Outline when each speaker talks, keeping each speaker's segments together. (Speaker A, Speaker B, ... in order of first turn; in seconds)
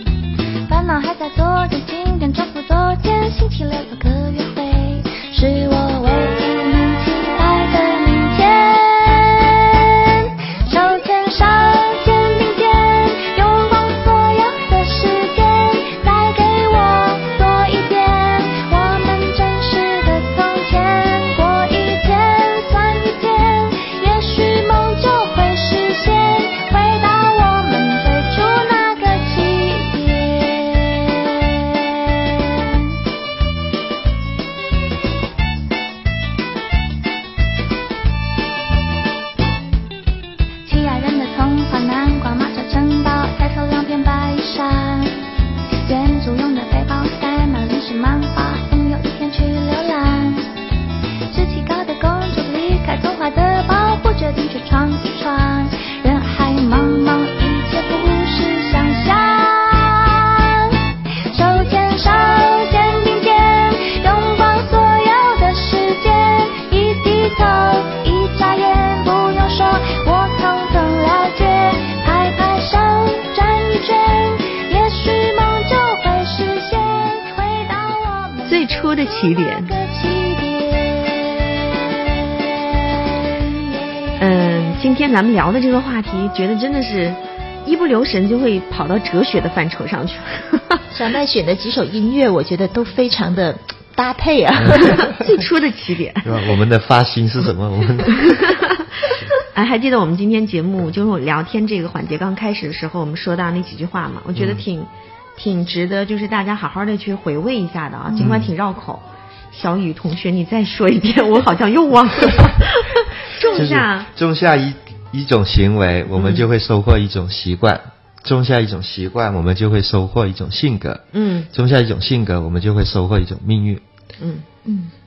Speaker A: 0.7-32.9, 40.6-45.1, 45.7-50.5, 51.3-84.2
Speaker B: 78.5-79.7, 84.2-90.8, 94.8-96.5, 98.1-114.1, 116.2-116.4, 121.1-121.5, 124.2-124.4
Speaker C: 90.9-95.2, 108.1-108.4, 124.6-124.9
Speaker D: 94.6-95.1, 96.2-98.6, 104.3-104.6, 108.2-108.5, 113.5-123.8